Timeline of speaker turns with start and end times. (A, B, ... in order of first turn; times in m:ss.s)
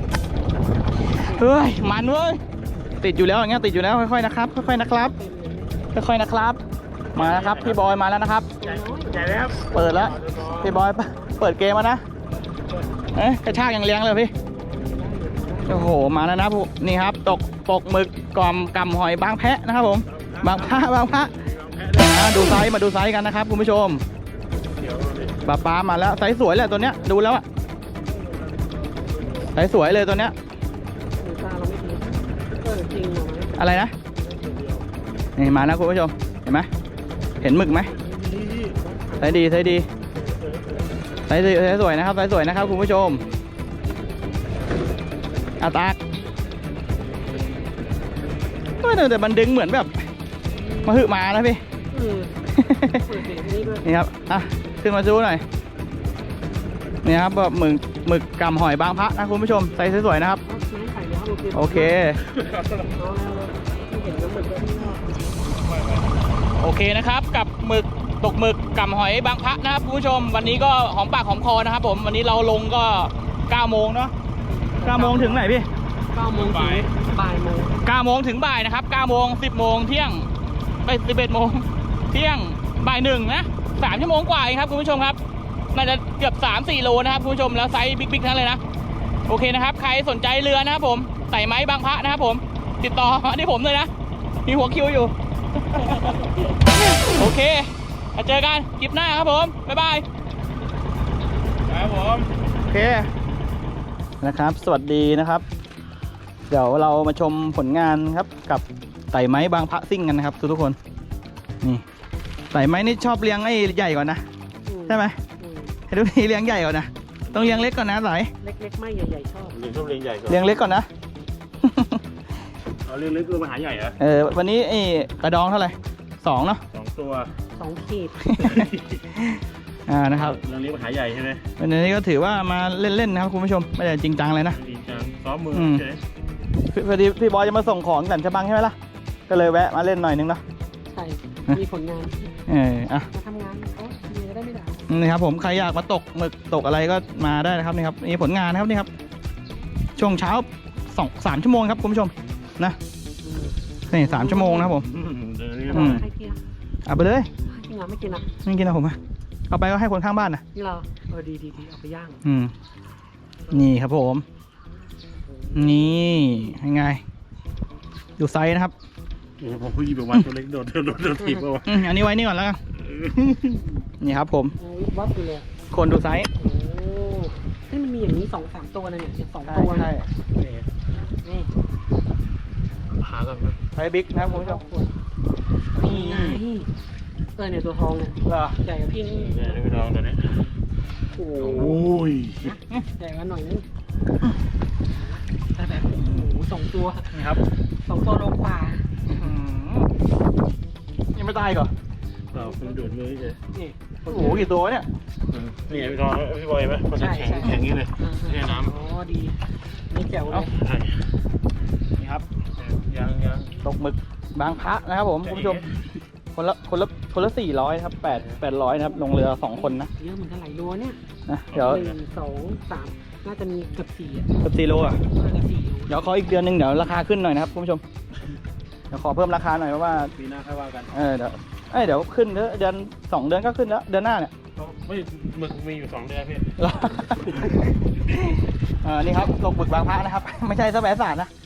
0:01.2-0:01.5 A
0:01.3-0:02.4 B
0:03.0-0:05.1 B
0:04.9-0:05.8 A
0:05.9-0:06.6 B
0:07.1-0:07.9 C
0:07.1-0:08.5 B
0:08.6-0:09.2 A
0:08.6-0:10.7 C
0:09.7-0:12.0 B
0:10.7-0:11.4 A
0:13.1-0:14.3 B
0:14.5-0:15.8 A
0:15.7-0:21.3 B
0:20.1-0:22.6 C
0:21.9-0:24.0 B
0:24.8-0:25.4 C
0:25.4-0:27.4 B
0:28.0-0:29.5 C
0:29.5-0:30.3 B
0:31.2-0:33.8 A
0:33.6-0:33.9 B
0:34.2-0:34.8 C
0:35.4-0:36.7 B
0:37.4-0:37.9 B
0:38.0-0:38.8 C
0:38.8-0:39.5 A
0:39.2-0:39.9 B
0:40.1-0:40.9 C
0:41.3-0:43.2 B
0:45.6-0:46.0 B
0:48.8-0:50.0 B
0:50.5-0:51.1 A
0:50.8-0:51.6 B
0:51.9-0:53.8 A
0:52.5-0:53.0 B
0:53.8-0:55.4 B
0:57.0-1:00.4 B
1:00.4-1:02.0 A
1:01.5-1:02.2 B
1:02.2-1:02.9 C
1:03.0-1:05.2 A
1:05.4-1:06.2 C
1:06.6-1:14.1 B
1:14.5-1:15.4 A
1:14.8-1:15.7 B
1:16.1-1:17.8 A
1:16.3-1:16.9 C
1:17.8-1:20.3 B
1:20.8-1:25.2 B
1:25.7-1:28.6 B
1:29.3-1:33.9 B
1:34.4-1:35.1 B
1:35.8-1:36.4 C
1:36.7-1:40.0 B
1:41.7-1:42.3 C
1:42.7-1:43.1 B
1:44.2-1:45.4 B
1:46.5-1:50.8 B
1:52.5-1:54.2 B
1:54.7-1:55.7 A
1:54.9-1:55.2 B
1:55.9-1:58.3 B
1:57.3-1:57.7 C
1:58.4-1:59.6 A
1:59.5-2:00.4 C
2:00.3-2:00.9 B
2:01.6-2:02.0 B
2:02.8-2:04.0 C
2:04.0-2:06.6 B
2:06.7-2:07.3 C
2:07.6-2:08.5 A
2:08.2-2:10.4 B
2:08.4-2:09.1 C
2:10.1-2:11.4 C
2:11.6-2:14.6 B
2:14.5-2:16.0 C
2:15.5-2:15.8 B
2:16.7-2:18.7 B
2:19.3-2:20.4 B
2:20.9-2:22.3 A
2:22.5-2:23.0 B
2:23.1-2:24.9 A
2:24.9-2:28.9 B
2:30.0-2:32.8 B
2:33.2-2:34.7 A
2:33.9-2:34.9 B
2:34.8-2:36.0 C
2:35.7-2:36.4 A
2:35.7-2:36.0 B
2:36.8-2:37.3 B
2:37.4-2:38.3 A
2:38.4-2:39.0 B
2:39.5-2:40.4 B
2:40.5-2:42.2 A
2:42.2-2:42.5 B
2:43.5-2:44.2 B
2:45.4-2:46.2 A
2:45.5-2:47.0 B
2:48.2-2:48.7 B
2:49.4-2:51.8 C
2:51.2-2:51.4 A
2:51.6-2:52.6 B
2:52.8-2:53.8 C
2:54.0-2:54.5 B
2:54.6-2:55.4 A
2:55.7-2:56.3 B
2:56.4-2:59.9 A
2:59.5-3:00.1 B
3:00.4-3:00.6 C
3:01.1-3:01.5 A
3:03.0-3:03.6 C
3:03.8-3:04.6 B
3:04.1-3:04.9 A
3:05.8-3:06.7 A
3:05.8-3:06.4 B
3:07.4-3:09.6 A
3:08.2-3:08.6 B
3:09.1-3:10.3 C
3:11.2-3:13.6 A
3:11.4-3:12.5 C
3:15.5-3:17.1 A
3:17.1-3:17.4 B
3:17.8-3:18.8 A
3:19.1-3:19.9 B
3:21.1-3:21.7 B
3:22.3-3:23.4 C
3:24.1-3:24.5 A
3:24.1-3:24.9 B
3:24.1-3:24.4 C
3:25.3-3:28.7 C
3:26.9-3:29.3 A
3:29.9-3:30.6 A
3:30.6-3:30.9 C
3:32.0-3:32.2 B
3:32.6-3:33.5 C
3:33.6-3:35.6 B
3:35.2-3:35.6 C
3:36.3-3:39.9 B
3:39.5-3:41.0 A
3:41.3-3:41.8 B
3:41.5-3:42.0 C
3:41.6-3:44.3 A
3:44.4-3:45.0 B
3:45.1-3:46.0 A
3:45.9-3:47.8 B
3:48.9-3:50.1 B
3:50.2-3:50.9 C
3:50.9-3:54.3 B
3:54.6-3:56.5 C
3:56.6-4:01.3 B